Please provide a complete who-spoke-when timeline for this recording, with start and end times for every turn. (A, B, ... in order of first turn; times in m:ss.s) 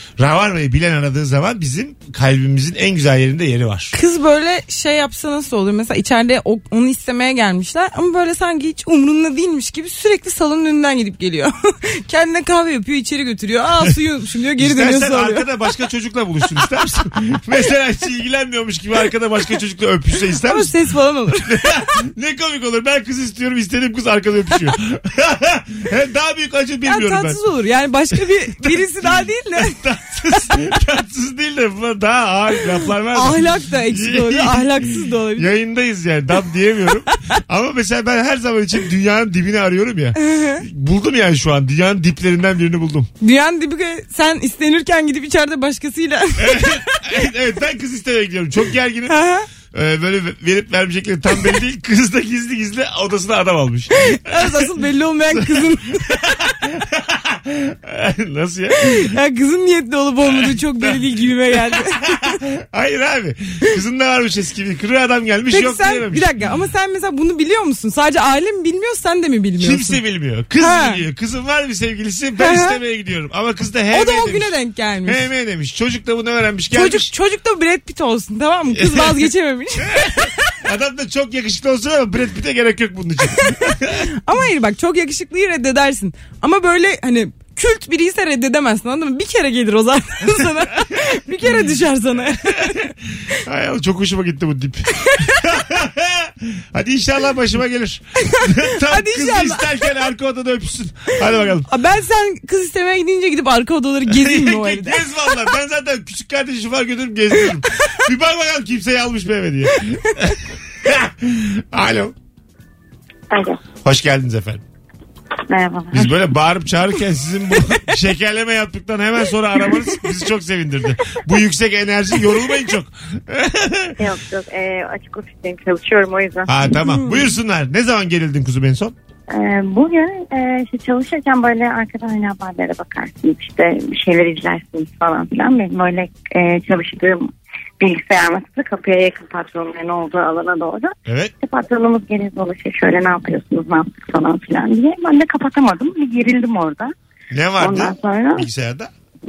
0:00.2-0:03.9 A
0:03.9-0:15.4 B
0:14.6-0:20.7 A
0:20.4-0:21.8 B
0:21.4-0:27.4 A
0:26.8-0:29.8 B
0:28.1-0:43.1 A
0:33.1-0:35.5 B
0:40.2-0:40.6 B
0:43.2-0:47.0 B
0:46.4-0:49.2 A
0:49.1-0:49.5 B
0:49.7-0:54.8 A
0:54.0-0:56.2 B
0:55.3-0:59.1 A
0:58.8-1:02.4 B
1:00.2-1:01.0 A
1:01.5-1:06.3 A
1:05.5-1:10.0 B
1:09.6-1:14.5 A
1:10.6-1:11.0 B
1:12.4-1:12.8 B
1:13.9-1:15.2 B
1:15.0-1:17.1 A
1:16.7-1:20.3 B
1:18.7-1:19.3 A
1:19.8-1:24.0 A
1:24.0-1:32.9 B
1:32.6-1:41.7 A
1:38.3-1:39.7 B
1:41.7-1:45.0 B
1:44.1-1:52.1 A
1:53.3-1:53.6 C
1:53.8-1:54.6 A
1:55.5-1:56.1 C
1:55.9-2:04.0 A
2:04.0-2:06.6 C
2:06.5-2:08.9 A
2:06.8-2:07.2 B
2:09.3-2:26.9 C
2:21.0-2:21.3 A
2:27.3-2:28.9 A
2:27.6-2:28.5 C